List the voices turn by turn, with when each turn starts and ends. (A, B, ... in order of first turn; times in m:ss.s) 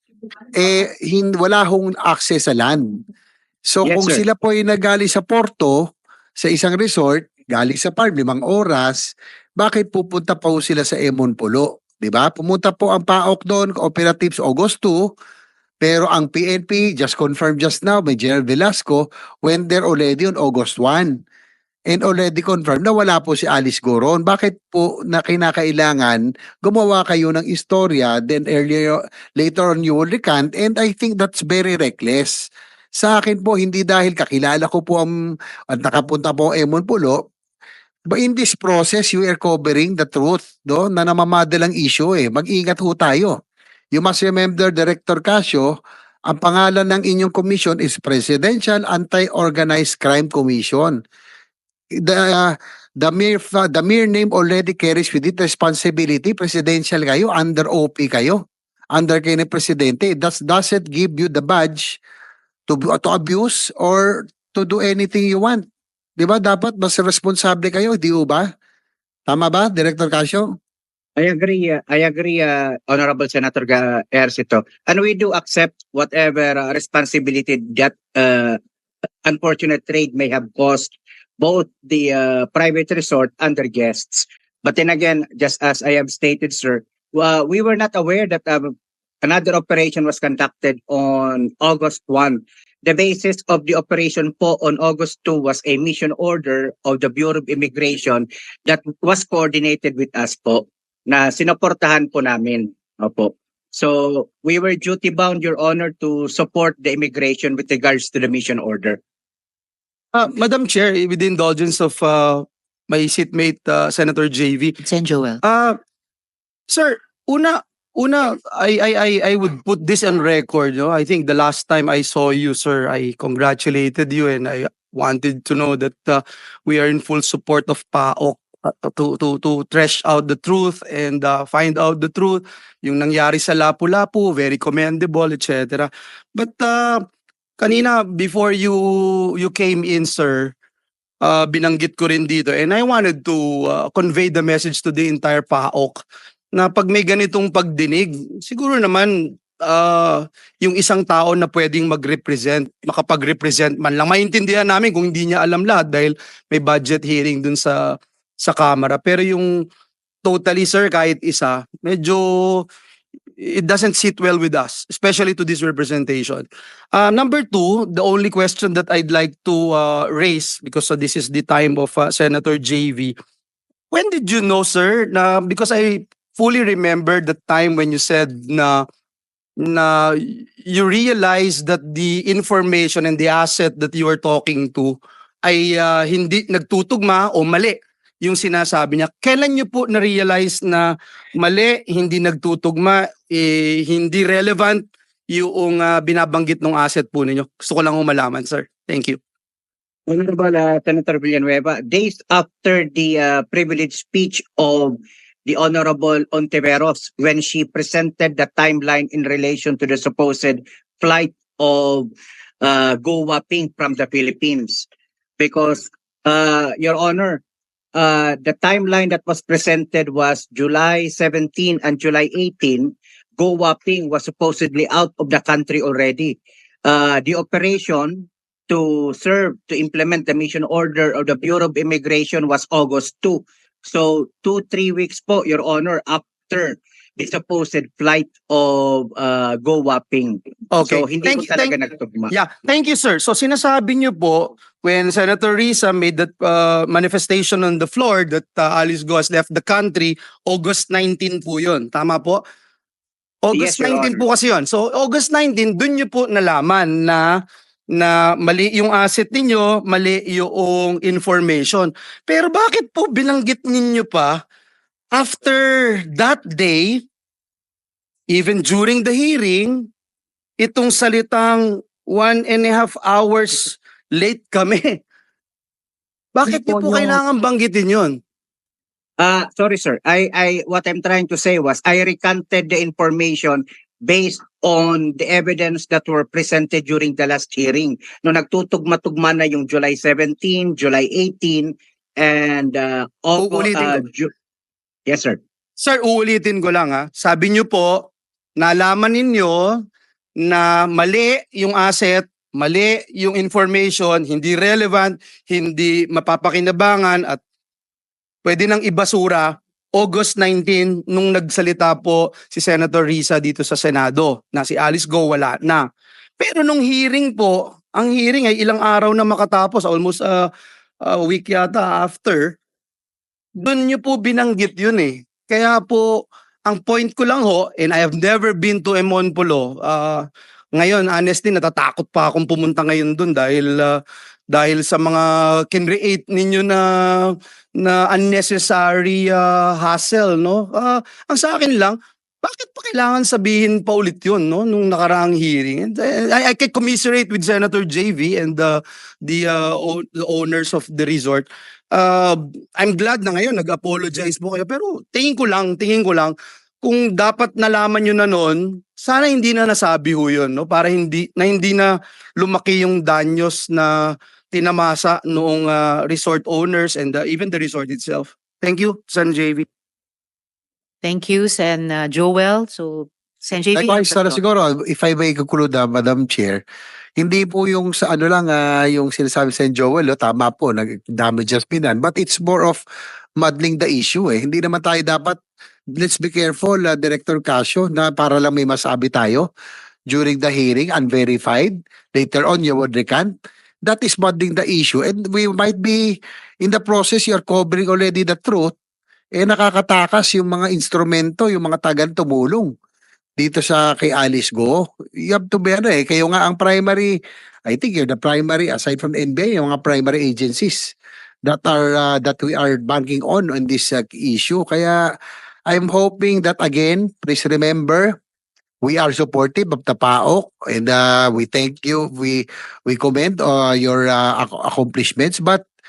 0:00.5-0:03.0 A
0:03.7-0:15.1 A
0:03.8-0:04.2 B
0:15.8-0:21.2 A
0:21.9-0:32.4 A
0:33.0-0:35.1 A
0:35.7-0:37.3 A
0:38.1-0:43.4 A
0:43.9-0:45.7 A
0:46.3-0:51.0 A
0:51.9-1:02.0 A
1:02.7-1:05.7 A
1:06.2-1:08.5 A
1:09.3-1:10.6 A
1:11.2-1:18.6 B
1:19.2-1:49.0 B
1:50.1-1:54.8 C
1:54.8-1:55.4 D
1:55.4-1:55.8 C
1:56.7-2:17.1 C
2:17.6-2:20.5 C
2:21.2-2:26.0 C
2:26.5-2:39.6 C
2:40.2-2:42.7 C
2:43.4-2:53.2 C
2:53.9-2:58.9 C
2:59.6-3:19.2 C
3:20.1-3:32.1 B
3:32.6-3:34.9 B
3:35.4-3:37.4 B
3:38.0-4:02.3 B
4:00.7-4:01.8 C
4:02.3-4:12.4 C
4:13.4-4:17.4 C
4:13.5-4:14.2 B
4:17.9-4:24.4 C
4:25.1-4:27.0 C
4:28.3-4:29.9 C
4:30.6-4:35.0 C
4:36.3-4:38.2 C
4:36.7-4:37.2 D
4:39.2-4:54.3 B
4:53.4-4:54.0 C
4:55.1-4:55.4 B
4:55.8-4:59.8 C
5:00.4-5:07.4 C
5:08.4-5:15.8 C
5:16.4-5:20.5 C
5:21.0-5:22.6 C
5:23.6-5:30.2 C
5:30.8-6:09.7 C
6:11.0-6:14.4 D
6:13.8-6:16.6 A
6:17.2-6:22.8 A
6:23.4-6:25.4 A
6:25.9-6:29.5 A
6:30.1-6:33.3 A
6:33.9-6:38.7 A
6:39.4-6:42.7 A
6:43.4-6:47.2 A
6:47.7-6:50.9 A
6:51.4-6:55.0 A
6:55.7-6:58.2 A
6:58.8-7:05.6 A